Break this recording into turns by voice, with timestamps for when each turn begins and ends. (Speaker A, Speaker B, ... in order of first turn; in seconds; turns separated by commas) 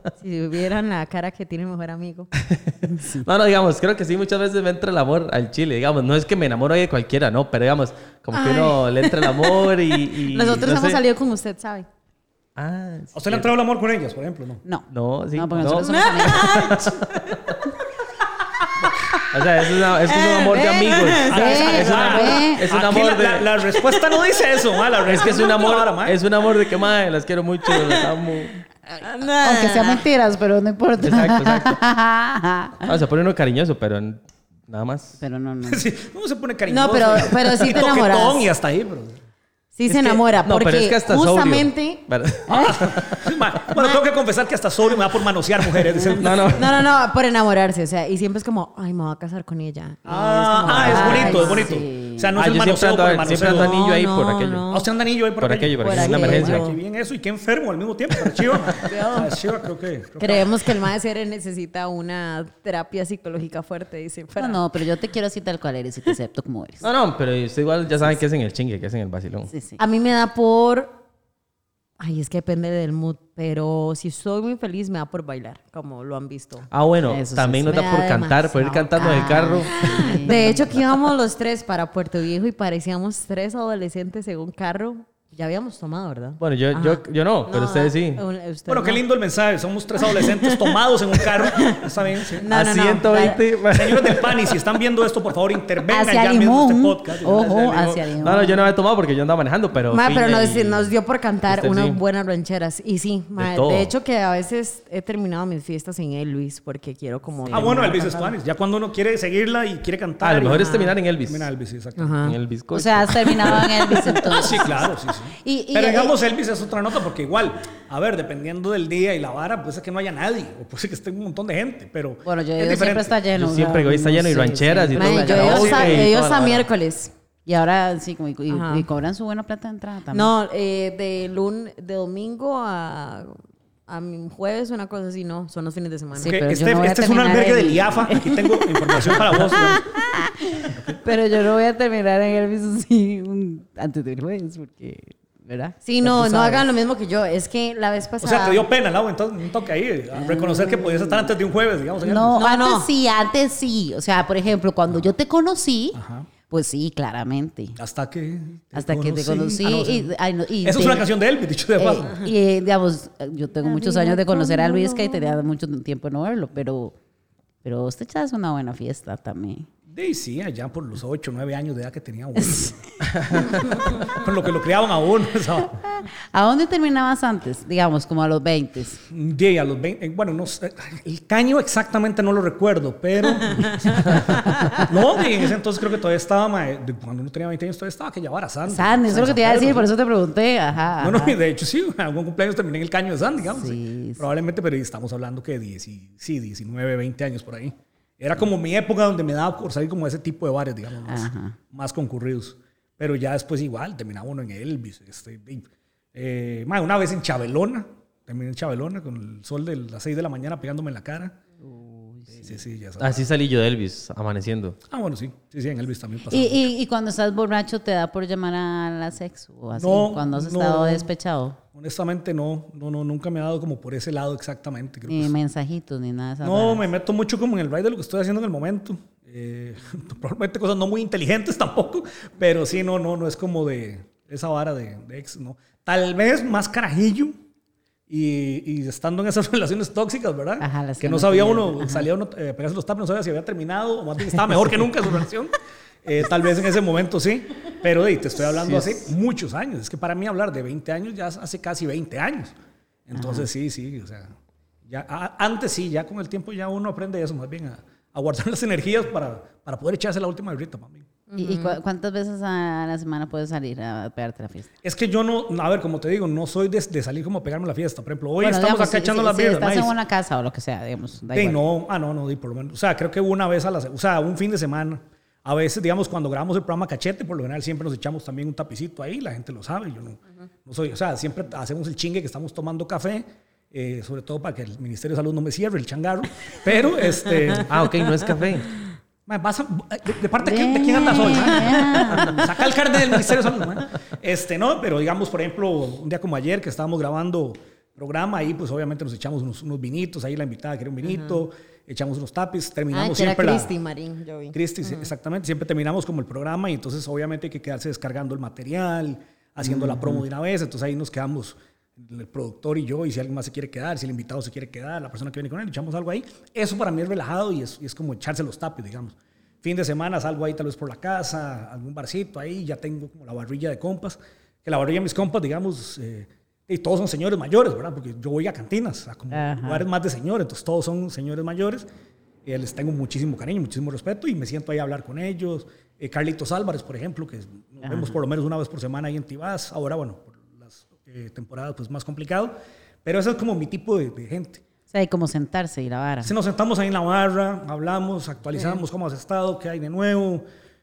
Speaker A: 0.2-2.3, Speaker B: 2.4-11.0, Speaker C: 2.9-3.3, Speaker A: 8.3-11.9, Speaker B: 12.6-13.5, Speaker D: 13.1-14.6, Speaker C: 14.6-16.7, Speaker B: 14.9-17.4, Speaker A: 15.9-17.4, Speaker A: 18.8-19.2, Speaker B: 19.3-23.6, Speaker A: 19.9-22.5, Speaker D: 21.3-26.2, Speaker C: 21.3-22.6, Speaker A: 23.9-24.1, Speaker B: 25.1-28.6, Speaker A: 27.7-27.9, Speaker A: 29.0-30.0, Speaker C: 29.4-32.9, Speaker B: 31.0-31.8, Speaker B: 32.9-35.2, Speaker C: 35.2-35.8, Speaker D: 35.6-39.2, Speaker A: 36.7-38.5, Speaker A: 39.7-42.0, Speaker B: 39.9-43.6, Speaker C: 42.5-42.8, Speaker D: 42.5-46.7, Speaker A: 43.7-44.0, Speaker B: 46.1-46.8, Speaker A: 46.5-51.8, Speaker D: 50.0-53.8, Speaker B: 50.7-51.2, Speaker C: 50.7-52.3, Speaker B: 52.3-54.6, Speaker A: 53.3-54.9, Speaker D: 54.7-60.8, Speaker B: 55.4-56.7, Speaker A: 55.8-56.6, Speaker A: 58.7-59.3, Speaker A: 60.2-64.6, Speaker C: 64.4-66.9, Speaker B: 66.8-69.5, Speaker C: 69.5-69.8, Speaker A: 69.8-71.0, Speaker A: 72.0-76.7, Speaker B: 76.7-80.6, Speaker C: 77.1-77.8, Speaker A: 77.7-89.0, Speaker C: 79.0-80.6, Speaker B: 86.4-88.2, Speaker D: 88.7-92.5, Speaker A: 90.0-93.4, Speaker B: 92.5-94.5, Speaker D: 93.7-97.5, Speaker C: 95.9-98.6, Speaker B: 97.3-100.9, Speaker A: 99.9-108.3, Speaker B: 101.5-102.0, Speaker B: 103.3-103.9, Speaker C: 107.5-107.7, Speaker D: 107.5-112.2, Speaker B: 110.2-111.5, Speaker A: 110.5-110.9, Speaker A: 112.0-112.3, Speaker B: 112.2-114.0, Speaker C: 112.7-114.9, Speaker D: 114.2-123.2, Speaker C: 115.4-116.2, Speaker C: 122.2-126.0, Speaker B: 123.3-126.7, Speaker A: 125.0-127.1, Speaker D: 125.4-126.0, Speaker C: 127.5-130.3, Speaker A: 128.5-128.9, Speaker A: 130.1-136.3, Speaker C: 136.2-146.7, Speaker D: 136.2-139.8, Speaker D: 140.7-141.0, Speaker A: 145.8-148.6, Speaker D: 148.2-152.4, Speaker C: 150.1-151.3, Speaker C: 152.0-157.8, Speaker A: 152.3-152.9, Speaker D: 155.9-156.3, Speaker D: 157.8-162.2, Speaker C: 158.7-161.1, Speaker C: 161.8-166.9, Speaker A: 163.6-165.4, Speaker C: 167.6-169.7, Speaker D: 169.9-175.8, Speaker C: 172.4-172.7, Speaker C: 175.9-179.0, Speaker D: 179.1-189.9, Speaker A: 183.5-183.7, Speaker C: 184.4-184.8, Speaker C: 188.7-191.4, Speaker D: 191.0-211.3, Speaker C: 193.5-194.2, Speaker C: 201.1-201.6, Speaker C: 211.6-212.6, Speaker D: 212.3-213.2, Speaker B: 213.0-214.8, Speaker D: 214.9-216.6, Speaker C: 216.3-221.6, Speaker D: 219.7-221.1, Speaker D: 221.7-225.3, Speaker C: 225.1-226.9, Speaker D: 226.4-237.3, Speaker D: 238.1-252.5, Speaker C: 240.6-242.1, Speaker B: 248.6-249.0, Speaker D: 253.1-254.3, Speaker C: 253.2-253.4, Speaker D: 254.9-261.1, Speaker A: 261.3-261.8, Speaker C: 261.4-264.7, Speaker D: 264.8-269.9, Speaker C: 268.4-271.6, Speaker D: 271.3-287.7, Speaker B: 287.6-288.7, Speaker D: 289.3-303.7, Speaker C: 290.4-292.5, Speaker A: 301.0-301.4, Speaker A: 302.9-305.1, Speaker D: 304.5-331.9, Speaker C: 329.3-329.8, Speaker D: 332.4-344.6, Speaker C: 337.8-338.2, Speaker C: 344.9-346.3, Speaker D: 346.2-350.4